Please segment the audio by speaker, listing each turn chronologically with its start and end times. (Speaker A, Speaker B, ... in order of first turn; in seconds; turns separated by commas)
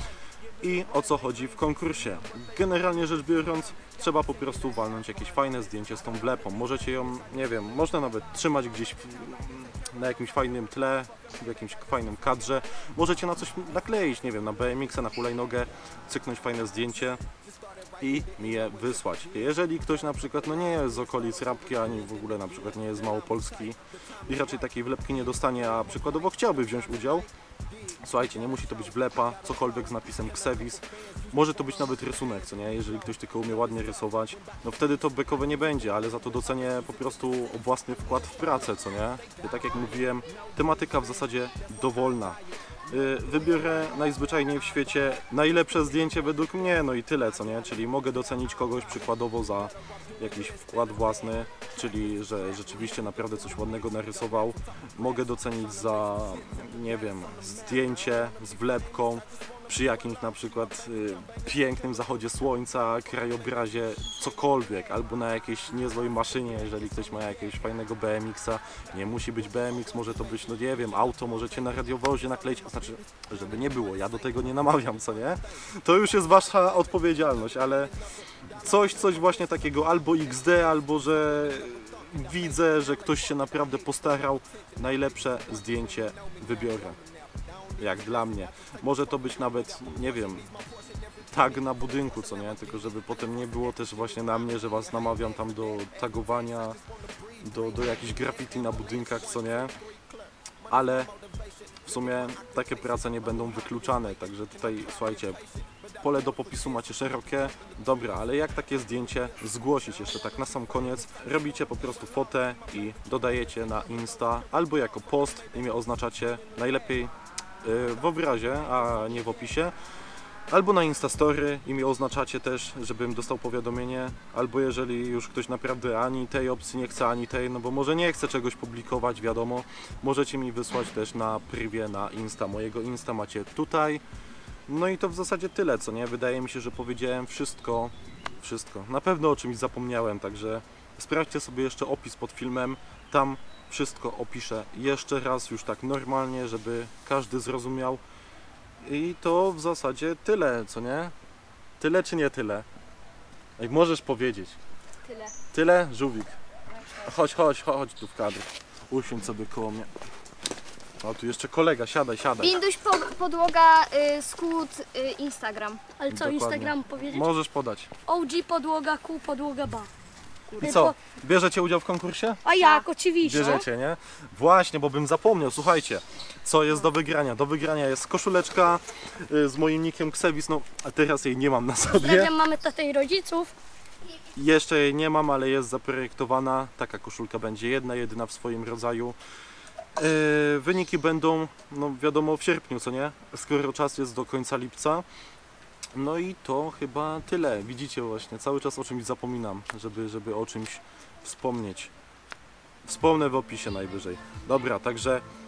Speaker A: 0.6-17.2, Speaker A: 18.0-27.3, Speaker A: 28.0-77.9, Speaker A: 78.6-87.0, Speaker A: 87.8-90.5, Speaker A: 91.3-96.8, Speaker A: 97.4-99.7, Speaker A: 100.7-101.1, Speaker A: 101.8-105.4, Speaker A: 106.0-119.7, Speaker A: 120.5-134.0, Speaker A: 134.7-148.0, Speaker A: 148.8-151.1, Speaker A: 151.8-152.7, Speaker A: 153.6-154.6, Speaker B: 155.1-155.3, Speaker A: 155.5-156.3, Speaker A: 157.0-159.9, Speaker A: 161.0-162.6, Speaker B: 162.4-165.9, Speaker C: 166.0-167.1, Speaker A: 166.1-167.9, Speaker C: 168.1-169.9, Speaker A: 170.6-172.4, Speaker C: 170.7-170.9, Speaker C: 172.4-173.6, Speaker A: 173.2-182.3, Speaker C: 181.9-183.5, Speaker A: 184.3-189.2, Speaker A: 190.0-195.0, Speaker A: 195.9-201.9, Speaker A: 202.8-205.2